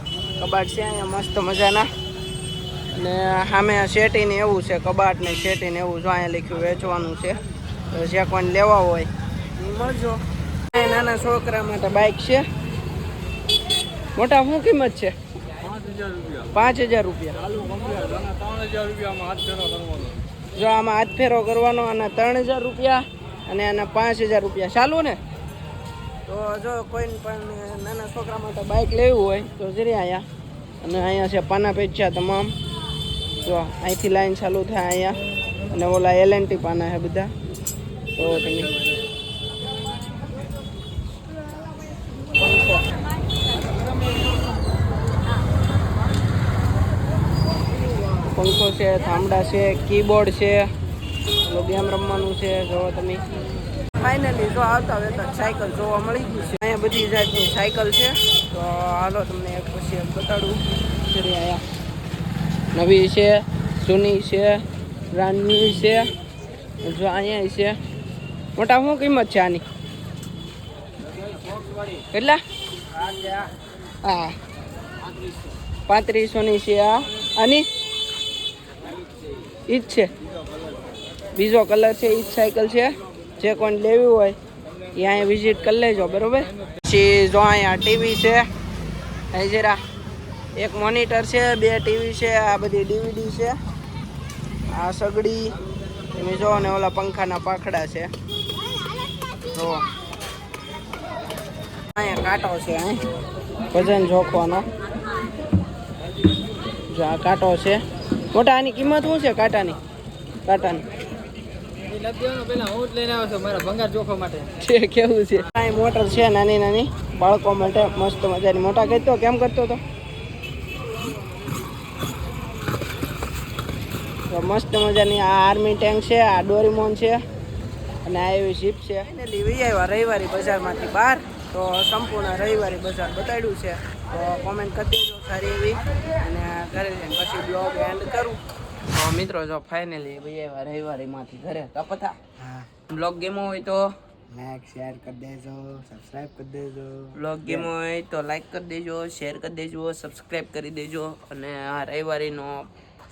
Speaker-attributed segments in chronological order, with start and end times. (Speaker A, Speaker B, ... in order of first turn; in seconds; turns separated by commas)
Speaker A: 0.4-1.9, Speaker A: 2.9-7.4, Speaker A: 7.9-12.4, Speaker A: 14.2-15.1, Speaker A: 16.5-17.9, Speaker B: 19.0-19.8, Speaker A: 20.6-25.2, Speaker A: 26.3-30.2, Speaker A: 30.8-32.5, Speaker A: 33.4-35.2, Speaker A: 35.7-37.3, Speaker A: 38.2-38.8, Speaker A: 42.4-42.8, Speaker A: 48.3-50.7, Speaker A: 51.4-53.2, Speaker A: 53.9-61.6, Speaker A: 62.7-66.1, Speaker A: 66.8-67.8, Speaker A: 68.6-69.6, Speaker A: 72.1-72.4, Speaker A: 73.1-73.4, Speaker A: 74.0-74.3, Speaker A: 75.9-77.6, Speaker A: 79.7-80.1, Speaker A: 81.3-84.4, Speaker A: 84.9-88.5, Speaker A: 89.3-89.8, Speaker A: 90.6-93.6, Speaker A: 94.7-95.5, Speaker A: 96.1-98.1, Speaker A: 99.5-99.8, Speaker A: 101.9-103.0, Speaker A: 103.7-104.7, Speaker A: 106.9-109.8, Speaker A: 110.5-110.8, Speaker B: 111.9-114.4, Speaker A: 114.5-119.8, Speaker A: 124.3-127.2, Speaker A: 128.0-138.4, Speaker A: 138.9-143.9, Speaker B: 144.3-147.1, Speaker A: 147.1-152.7